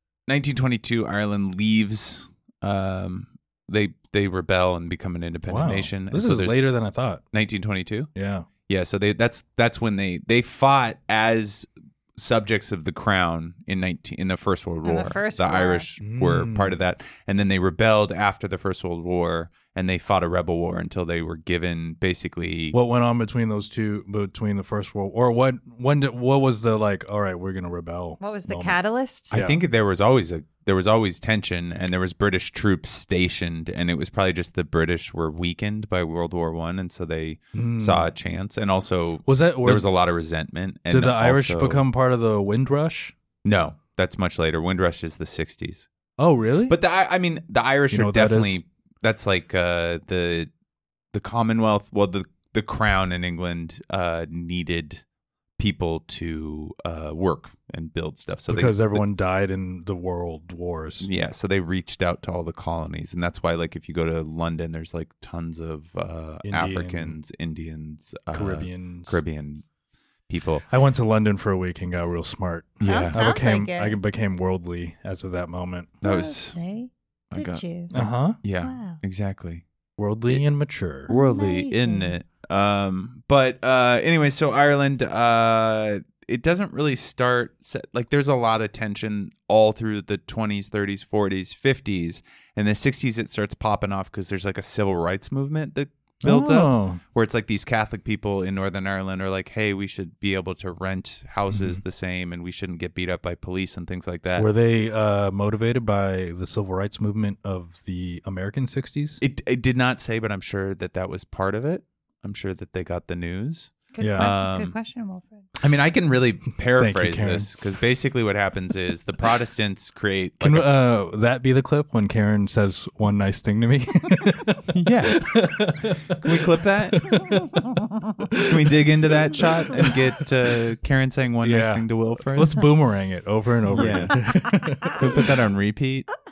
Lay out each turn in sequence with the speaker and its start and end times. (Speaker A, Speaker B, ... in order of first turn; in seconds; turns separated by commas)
Speaker A: 0.3-6.7, Speaker B: 5.5-7.2, Speaker A: 7.3-8.1, Speaker B: 8.2-8.5, Speaker A: 8.7-22.8, Speaker C: 14.8-15.9, Speaker B: 16.0-16.8, Speaker B: 22.7-28.8, Speaker C: 28.2-29.3, Speaker B: 29.3-29.6, Speaker A: 29.3-41.8, Speaker B: 37.5-38.1, Speaker B: 39.3-39.9, Speaker B: 40.9-43.1, Speaker A: 43.5-45.9, Speaker B: 46.2-46.8, Speaker A: 46.7-50.5, Speaker B: 47.9-48.6, Speaker A: 51.1-55.0, Speaker A: 55.6-59.0, Speaker B: 58.5-61.1, Speaker A: 61.0-69.6, Speaker B: 66.5-67.2, Speaker B: 68.3-69.2, Speaker A: 70.3-70.7, Speaker B: 70.7-75.9, Speaker A: 72.8-73.2, Speaker C: 72.8-74.0, Speaker A: 76.0-76.6, Speaker C: 76.0-77.9, Speaker A: 77.3-79.6, Speaker B: 77.9-78.4, Speaker C: 78.6-79.0, Speaker B: 80.0-81.1, Speaker C: 81.1-82.1, Speaker A: 81.1-104.5, Speaker B: 96.2-97.0, Speaker B: 101.5-101.8, Speaker B: 104.3-109.2, Speaker A: 109.2-114.8, Speaker C: 113.9-115.5, Speaker B: 114.0-114.3, Speaker A: 115.6-120.7, Speaker B: 116.7-117.5, Speaker B: 120.4-124.6, Speaker A: 124.7-127.1, Speaker B: 125.2-128.7, Speaker A: 128.5-132.7, Speaker B: 129.3-130.0, Speaker B: 131.4-135.3, Speaker A: 133.7-134.2, Speaker A: 134.9-136.1